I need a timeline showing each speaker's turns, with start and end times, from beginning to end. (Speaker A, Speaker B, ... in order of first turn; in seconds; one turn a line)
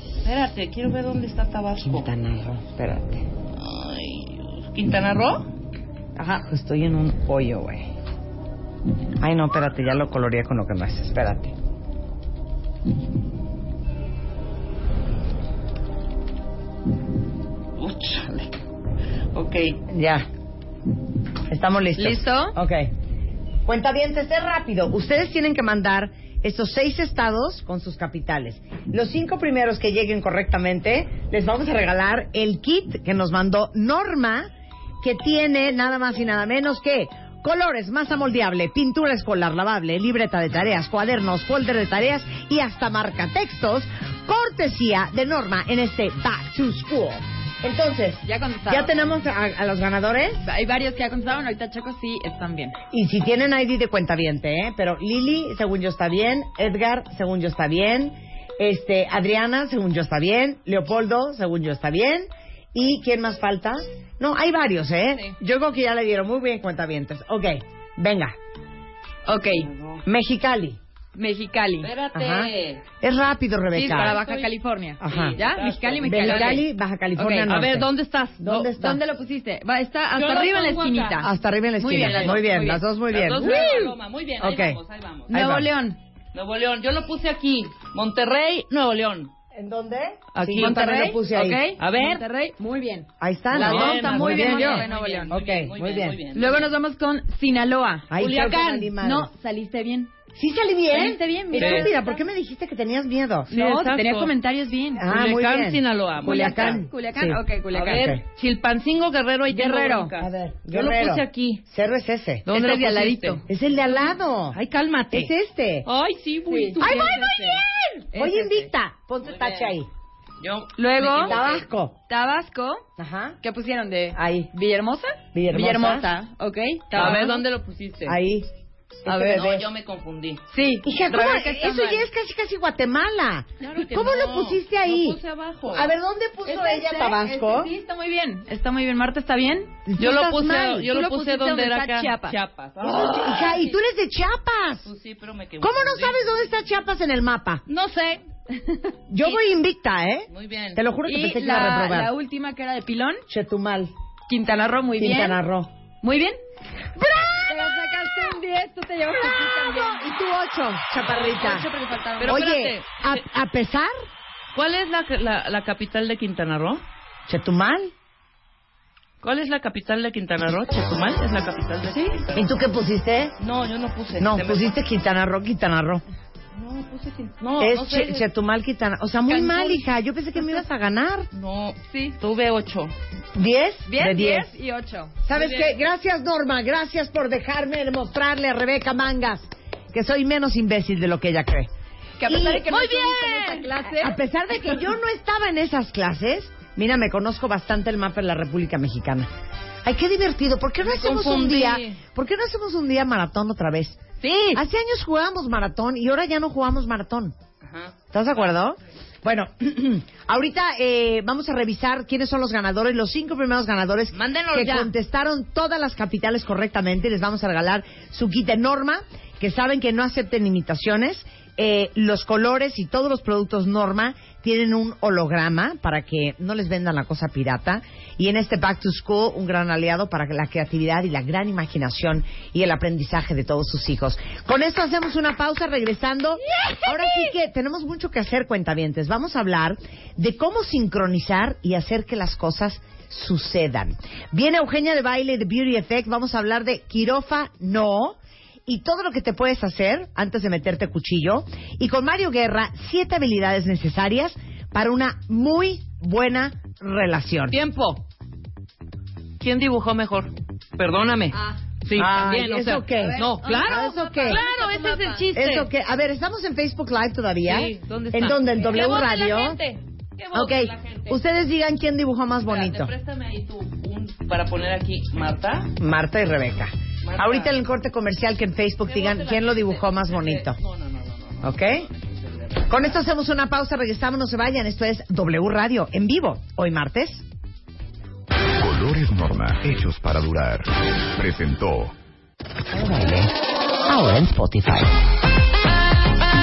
Speaker A: 0.2-2.1
Speaker B: 1.8-3.2
Speaker A: 3.6-5.5
Speaker B: 6.2-7.9
Speaker B: 9.2-11.5
Speaker A: 17.8-18.5
Speaker A: 19.3-19.8
Speaker B: 19.9-20.3
Speaker B: 21.5-22.9
Speaker C: 22.0-22.6
Speaker B: 23.7-34.5
Speaker B: 35.0-50.5
Speaker C: 48.2-48.9
Speaker C: 50.4-52.8
Speaker B: 52.9-68.3
Speaker A: 65.1-65.4
Speaker C: 69.3-69.7
Speaker A: 69.5-70.0
Speaker B: 70.0-70.8
Speaker C: 71.1-71.9
Speaker A: 71.8-72.8
Speaker B: 72.1-74.2
Speaker C: 73.7-77.5
Speaker A: 73.9-74.5
Speaker B: 75.0-75.4
Speaker A: 75.0-76.7
Speaker B: 76.0-77.9
Speaker A: 77.5-78.7
Speaker B: 78.4-79.0
Speaker C: 78.7-82.8
Speaker A: 80.1-81.2
Speaker B: 81.2-83.6
Speaker A: 82.0-82.4
Speaker A: 83.1-85.4
Speaker C: 83.4-83.9
Speaker B: 84.4-84.8
Speaker B: 85.3-85.7
Speaker C: 85.3-86.0
Speaker A: 86.3-89.3
Speaker B: 89.5-91.6
Speaker A: 90.3-90.8
Speaker C: 90.6-95.3
Speaker A: 91.8-92.2
Speaker B: 93.2-96.2
Speaker A: 93.5-96.7
Speaker C: 96.3-100.1
Speaker B: 98.1-99.3
Speaker A: 98.2-98.5
Speaker B: 100.3-103.5
Speaker C: 100.9-102.2
Speaker A: 101.6-101.9
Speaker A: 103.5-104.3
Speaker C: 103.5-105.1
Speaker B: 105.0-108.2
Speaker A: 105.1-106.8
Speaker C: 106.2-108.2
Speaker A: 107.7-111.6
Speaker C: 109.5-110.1
Speaker B: 110.2-112.5
Speaker A: 112.5-113.4
Speaker C: 112.5-113.4
Speaker B: 113.5-114.6
Speaker A: 114.5-115.3
Speaker B: 115.1-115.9
Speaker A: 115.8-117.6
Speaker C: 116.5-117.3
Speaker B: 116.8-119.9
Speaker C: 118.1-118.7
Speaker A: 119.2-119.8
Speaker A: 120.4-121.7
Speaker C: 120.8-121.4
Speaker B: 121.2-122.0
Speaker C: 122.1-122.8
Speaker B: 123.0-123.4
Speaker C: 123.4-127.4
Speaker B: 124.2-124.5
Speaker B: 125.3-126.1
Speaker A: 126.9-128.2
Speaker B: 128.1-128.5
Speaker B: 129.1-129.6
Speaker C: 129.1-129.6
Speaker A: 129.3-130.4
Speaker C: 130.5-132.0
Speaker B: 130.8-135.2
Speaker A: 133.6-135.9
Speaker B: 135.7-137.7
Speaker C: 136.4-139.8
Speaker B: 139.9-140.8
Speaker A: 140.0-143.8
Speaker C: 140.4-142.4
Speaker B: 142.8-144.9
Speaker A: 144.8-146.4
Speaker B: 145.6-147.6
Speaker A: 147.7-148.2
Speaker C: 148.5-149.4
Speaker B: 149.1-152.1
Speaker A: 150.3-150.8
Speaker C: 151.1-153.2
Speaker B: 153.3-153.9
Speaker C: 154.3-155.4
Speaker B: 155.0-155.7
Speaker C: 156.0-156.4
Speaker C: 157.2-162.4
Speaker B: 160.9-161.7
Speaker A: 162.2-163.2
Speaker B: 162.3-163.9
Speaker A: 164.5-166.8
Speaker B: 167.3-167.9
Speaker A: 169.2-172.4
Speaker B: 172.3-173.3
Speaker A: 173.4-174.8
Speaker B: 174.2-176.0
Speaker A: 176.6-178.3
Speaker B: 177.6-181.3
Speaker C: 179.3-179.8
Speaker A: 181.3-182.9
Speaker C: 181.8-182.2
Speaker B: 183.3-184.5
Speaker C: 183.9-185.2
Speaker B: 185.3-191.7
Speaker A: 185.3-185.8
Speaker C: 192.2-194.2
Speaker B: 192.3-199.3
Speaker A: 193.1-193.6
Speaker B: 199.8-204.0
Speaker A: 200.8-202.0
Speaker A: 204.2-204.6
Speaker B: 204.5-207.3
Speaker A: 207.6-208.0
Speaker B: 208.1-257.6
Speaker A: 214.1-214.9
Speaker A: 257.5-258.0
Speaker A: 259.4-265.7
Speaker C: 261.3-261.6
Speaker B: 262.0-264.4
Speaker C: 262.9-265.3
Speaker B: 265.4-269.6
Speaker A: 267.4-271.2
Speaker B: 270.3-272.9
Speaker A: 272.5-275.7
Speaker B: 275.8-280.6
Speaker A: 277.0-277.6
Speaker A: 278.8-282.9
Speaker B: 281.4-281.9
Speaker B: 282.7-287.2
Speaker D: 288.6-291.9
Speaker B: 292.7-293.3
Speaker B: 293.9-295.0